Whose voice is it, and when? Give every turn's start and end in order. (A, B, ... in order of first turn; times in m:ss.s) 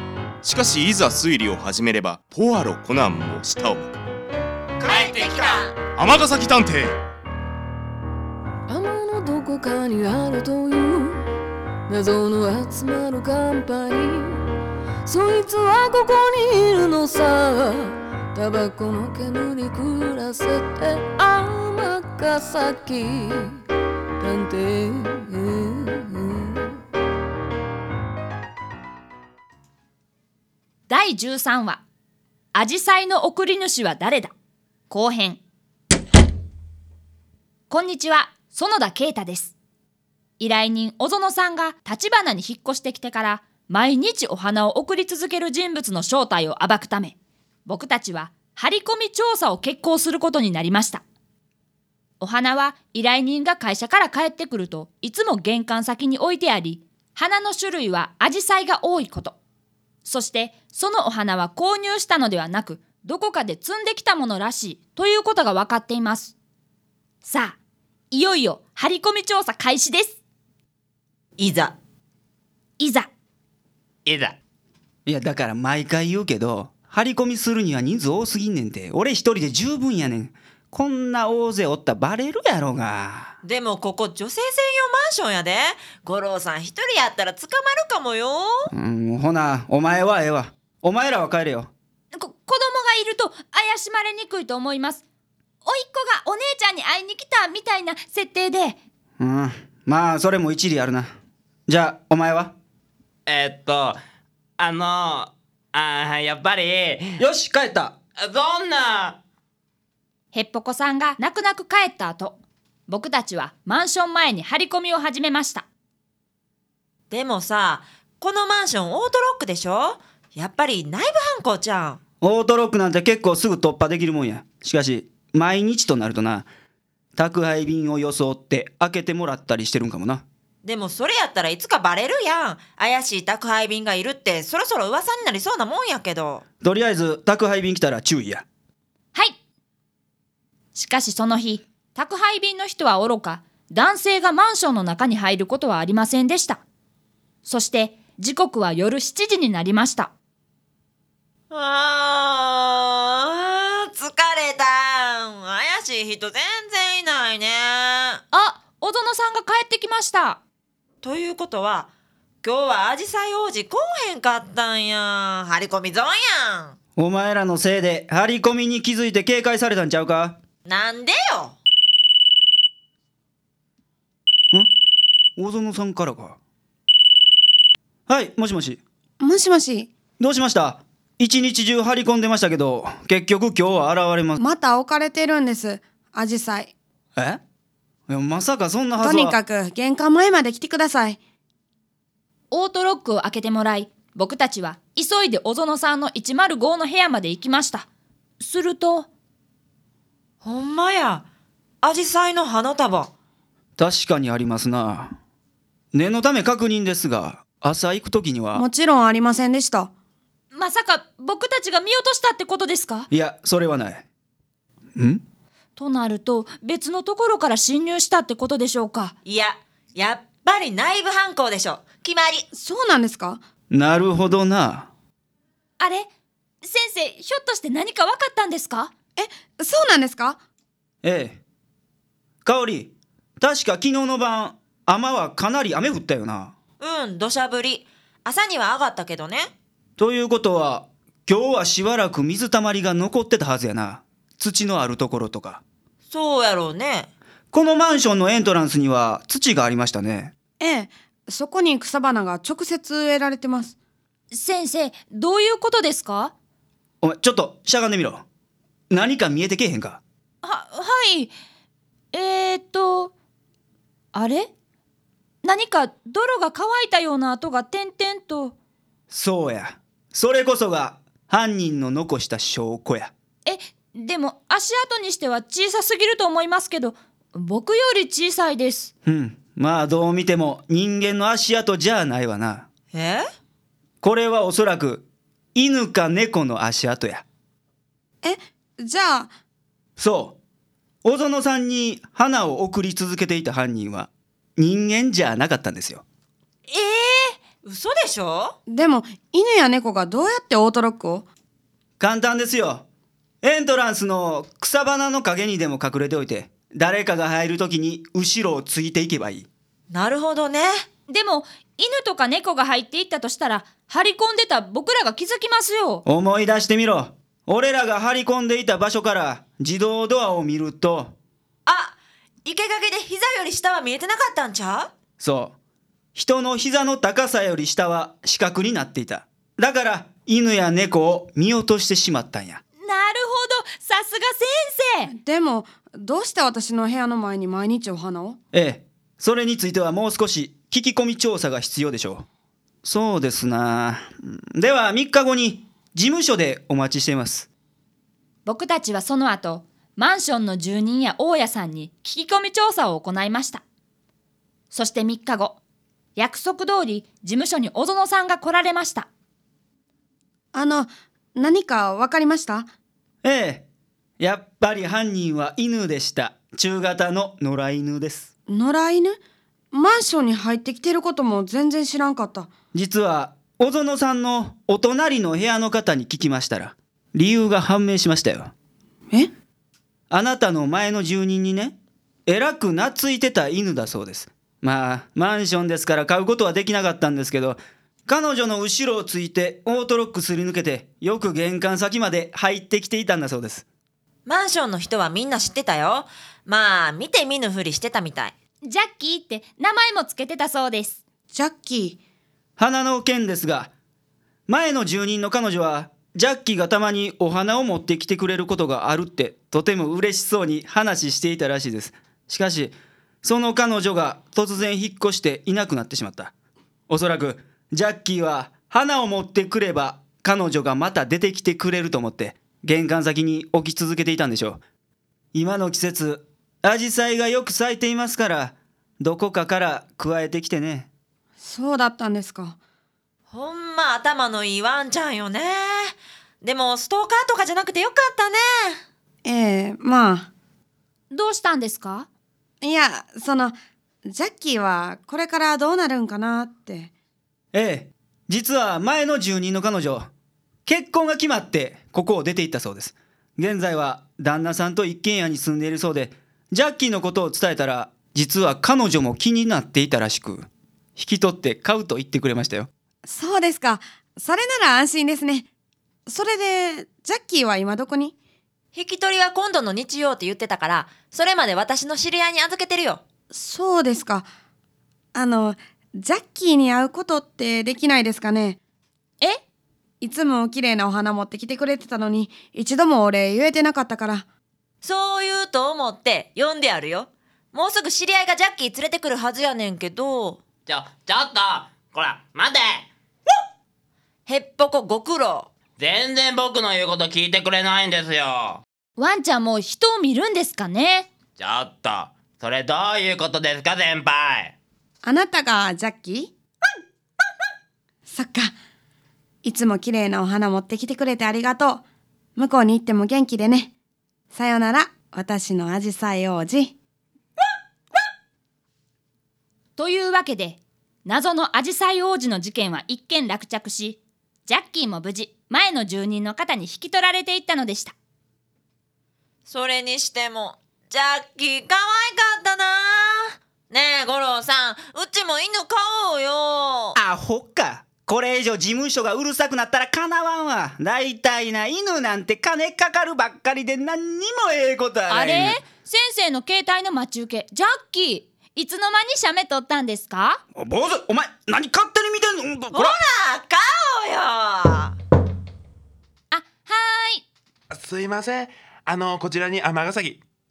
0:00.4-0:03.9 A
0:04.8-0:05.8 B
0:04.9-0:05.6 C
0:06.0-0:07.0 A
0:08.7-0:11.2 D
0:11.9-0:14.4 D
0:15.1-0:23.6 D
0:24.2-0:26.7 D
0:30.9-0:31.8 E
0:32.5-0:34.3 E
0:34.9-0:35.4 E
0:37.7-0:39.5 E
0:40.4-0:51.0 E
0:52.2-0:59.4 E
1:00.0-1:06.3 E
1:07.2-1:07.6 E
1:08.1-1:10.2 E
1:11.4-1:11.8 B
1:12.8-1:13.1 E
1:14.1-1:14.4 C
1:15.1-1:23.4 F
1:23.4-1:28.7 B
1:28.7-1:31.7 F
1:32.1-1:35.0 E
1:35.6-1:38.8 E
1:39.2-1:41.1 F
1:41.7-1:42.5 F
1:43.3-1:44.0 C
1:44.6-1:47.2 C
1:47.2-1:48.0 F
1:48.2-1:49.2 C
1:50.3-1:55.6 E
1:57.1-2:02.0 B
2:02.2-2:06.5 F
2:07.2-2:10.2 F
2:10.6-2:16.4 B
2:16.6-2:18.4 F
2:20.7-2:26.6 E
2:27.4-2:30.1 E
2:31.5-2:38.2 B
2:38.3-2:40.4 E
2:41.0-2:41.9 B
2:42.4-2:46.8 B
2:47.0-2:50.4 F
2:50.7-2:51.6 B
2:55.4-2:56.4 F
2:58.1-2:58.8 F
2:59.2-2:59.9 G
3:00.2-3:04.4 F
3:04.4-3:06.7 G
3:08.1-3:09.4 F
3:09.0-3:11.2 G
3:12.5-3:17.9 E
3:18.4-3:19.1 E
3:20.4-3:21.3 B
3:21.8-3:23.1 B
3:23.8-3:25.2 F
3:25.9-3:28.6 F
3:28.5-3:29.9 G
3:30.5-3:33.1 E
3:33.1-3:34.0 F
3:35.0-3:35.2 F
3:35.8-3:39.2 E
3:39.2-3:42.5 B
3:42.5-3:43.4 G
3:43.7-3:44.9 F
3:45.8-3:46.1 E
3:46.6-3:48.9 E
3:49.2-3:50.4 G
3:51.0-3:51.4 F
3:52.4-3:56.6 F
3:56.8-3:59.5 B
4:00.0-4:05.6 F
4:06.1-4:07.1 B
4:07.5-4:10.3 F
4:10.6-4:13.7 G
4:14.3-4:16.3 E
4:17.0-4:18.2 F
4:18.9-4:20.0 F
4:20.4-4:21.3 E
4:22.1-4:23.1 E
4:24.1-4:24.5 E
4:25.4-4:28.6 E
4:29.1-4:33.1 F
4:33.4-4:38.9 E
4:39.0-4:42.7 F
4:42.9-4:43.3 B
4:44.0-4:47.2 F
4:48.2-4:49.3 G
4:50.0-4:50.4 F
4:51.0-4:56.0 F
4:56.7-4:57.1 E
4:57.6-4:58.6 B
4:58.7-5:01.2 G
5:02.0-5:02.9 F
5:03.4-5:09.5 F
5:09.9-5:10.7 B
5:11.1-5:16.0 E
5:16.0-5:21.2 F
5:21.7-5:24.9 B
5:25.2-5:25.6 F
5:26.2-5:32.6 F
5:32.8-5:35.1 E
5:35.1-5:38.4 G
5:38.5-5:42.3 F
5:42.8-5:47.5 F
5:48.4-5:53.6 E
5:54.7-5:55.6 E
5:56.2-5:59.1 E
6:00.5-6:02.7 G
6:03.2-6:03.7 F
6:04.2-6:08.3 F
6:08.5-6:09.2 G
6:09.7-6:12.5 G
6:12.7-6:18.5 F
6:20.1-6:21.8 F
6:22.3-6:33.6 F
6:34.3-6:38.3 B
6:38.6-6:41.0 E
6:41.3-6:42.0 G
6:42.6-6:43.7 F
6:44.5-6:56.3 F
6:56.9-7:04.6 F
7:05.3-7:10.9 F
7:11.4-7:12.6 G
7:13.3-7:18.8 B
7:19.2-7:20.3 G
7:21.1-7:22.1 E
7:22.6-7:26.9 G
7:27.5-7:30.1 F
7:30.7-7:42.7 F
7:43.1-7:45.5 G
7:46.1-7:48.1 G
7:48.7-7:53.0 B
7:53.3-7:54.3 G
7:55.1-7:58.6 G
8:00.0-8:04.2 G
8:04.8-8:10.4 B
8:10.7-8:12.9 C
8:14.3-8:15.5 B
8:15.8-8:18.6 C
8:19.0-8:21.1 E
8:21.4-8:24.5 C
8:25.0-8:26.3 G
8:28.1-8:28.5 G
8:29.4-8:31.8 G
8:32.4-8:33.7 G
8:34.3-8:36.7 G
8:39.8-8:47.9 E
8:49.5-8:57.0 B
8:57.0-9:05.6 F
9:05.1-9:10.4 E
9:10.6-9:13.0 F
9:12.7-9:15.0 B
9:16.3-9:17.2 E
9:17.7-9:20.2 H